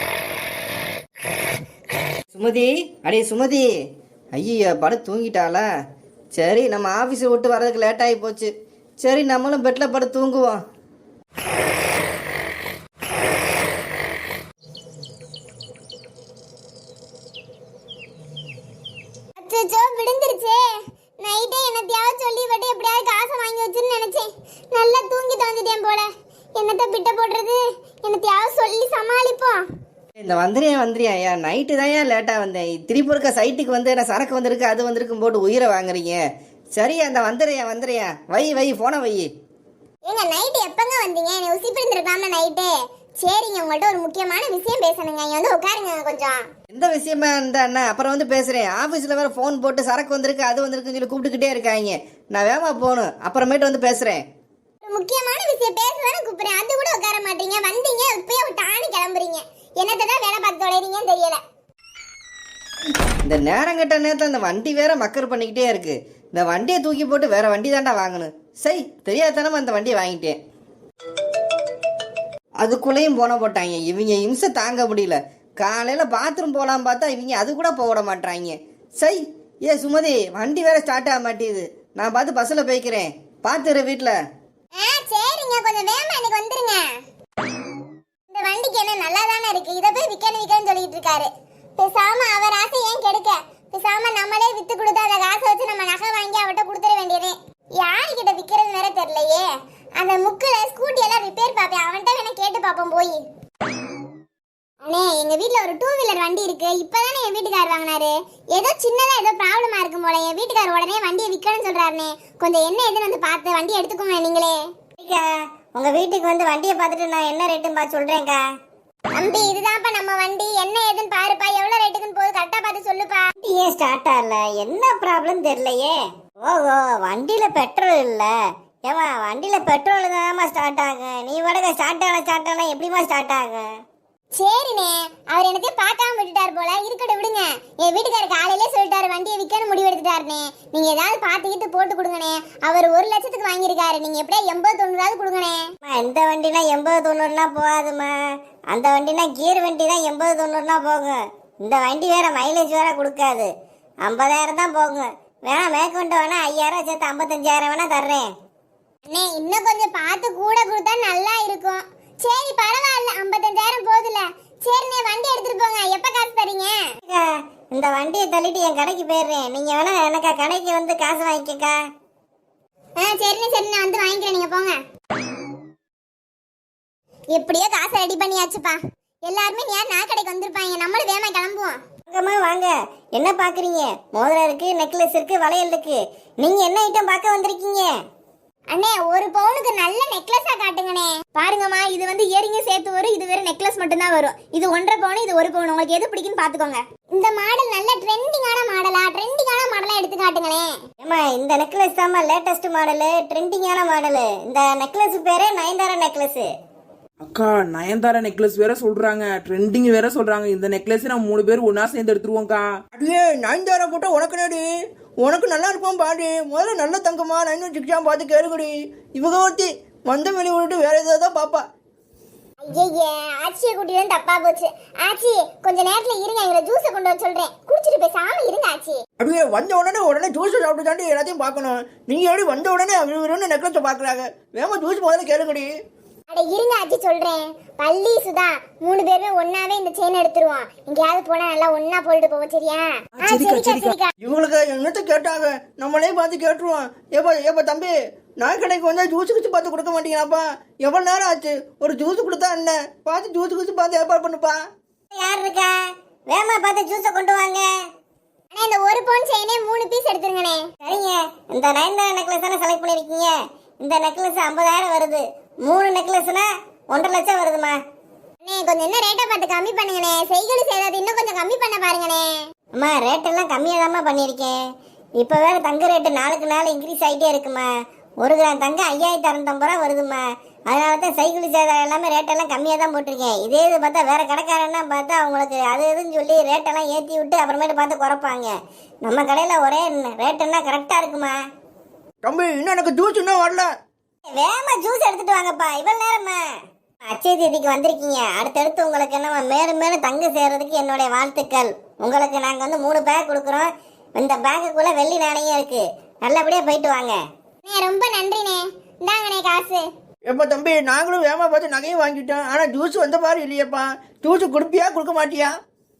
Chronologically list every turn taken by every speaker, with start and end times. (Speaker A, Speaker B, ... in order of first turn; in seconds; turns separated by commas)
Speaker A: 2.3-3.7, Speaker A: 4.4-5.7, Speaker A: 6.3-10.6, Speaker B: 19.4-20.6, Speaker B: 21.2-29.6, Speaker A: 30.2-36.2, Speaker A: 36.8-39.3, Speaker B: 40.1-46.5, Speaker A: 46.7-54.2, Speaker B: 54.9-61.4, Speaker A: 63.2-70.4, Speaker A: 72.6-84.2, Speaker B: 84.8-86.8, Speaker B: 88.3-99.5, Speaker B: 100.0-103.2, Speaker B: 104.8-114.6, Speaker C: 115.0-118.4, Speaker B: 119.2-123.3, Speaker C: 123.4-128.3, Speaker C: 128.9-133.7, Speaker B: 134.4-145.7, Speaker C: 145.8-148.2, Speaker C: 148.7-153.5, Speaker C: 154.1-158.3, Speaker B: 159.1-166.8, Speaker C: 167.1-171.8, Speaker B: 173.0-174.8, Speaker B: 177.3-181.8, Speaker C: 182.1-187.9, Speaker B: 188.7-200.8, Speaker C: 201.0-206.5, Speaker D: 207.2-212.7, Speaker E: 212.9-214.6, Speaker E: 215.2-221.6, Speaker B: 222.6-229.0, Speaker E: 229.2-235.7, Speaker B: 236.3-244.1, Speaker D: 243.2-244.0, Speaker E: 244.2-254.6, Speaker C: 255.1-255.7, Speaker C: 256.3-257.7, Speaker B: 258.5-260.8, Speaker C: 260.8-267.8, Speaker B: 268.4-272.4, Speaker C: 272.8-274.6, Speaker C: 275.2-277.7, Speaker C: 278.2-291.4, Speaker E: 292.2-293.7, Speaker C: 294.3-296.4, Speaker C: 297.1-307.2, Speaker B: 307.6-309.9, Speaker E: 310.3-315.5